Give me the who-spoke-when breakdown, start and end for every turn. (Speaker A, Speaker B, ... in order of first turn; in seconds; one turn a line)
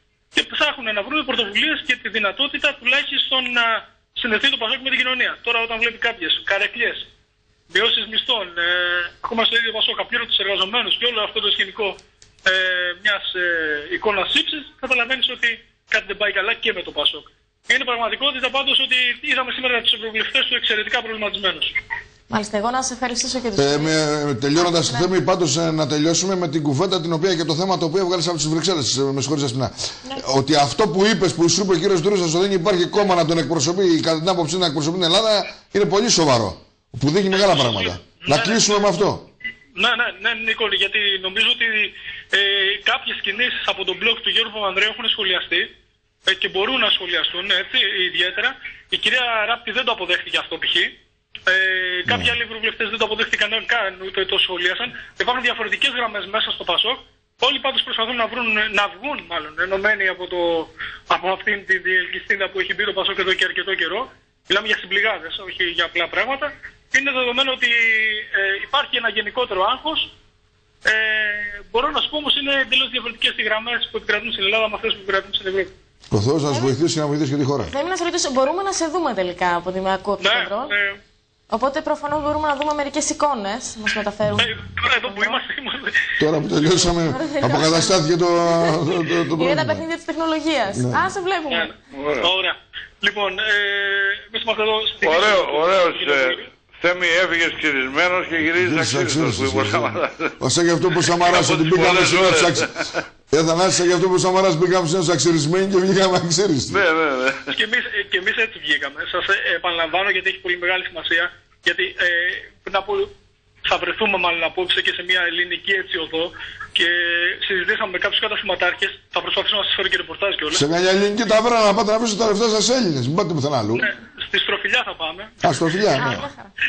Speaker A: 0.3-7.1
Speaker A: 7.7-21.7
Speaker B: 22.3-24.0
Speaker C: 23.6-39.2
Speaker B: 24.6-25.1
Speaker A: 37.3-39.0
Speaker A: 39.8-45.7
Speaker A: 46.3-51.0
Speaker A: 51.5-70.1
Speaker A: 70.9-75.7
Speaker C: 76.1-77.7
Speaker B: 77.7-80.7
Speaker A: 80.2-81.0
Speaker B: 81.5-85.4
Speaker A: 84.4-86.0
Speaker C: 86.2-89.8
Speaker B: 86.8-88.0
Speaker B: 89.4-91.7
Speaker C: 90.7-91.1
Speaker A: 91.5-96.5
Speaker D: 91.9-92.3
Speaker D: 95.0-100.3
Speaker C: 98.6-102.7
Speaker D: 101.2-102.7
Speaker C: 103.3-106.8
Speaker D: 106.7-107.5
Speaker A: 107.5-113.1
Speaker A: 113.6-120.7
Speaker C: 120.5-123.8
Speaker A: 123.8-126.2
Speaker C: 125.4-126.2
Speaker B: 126.0-126.4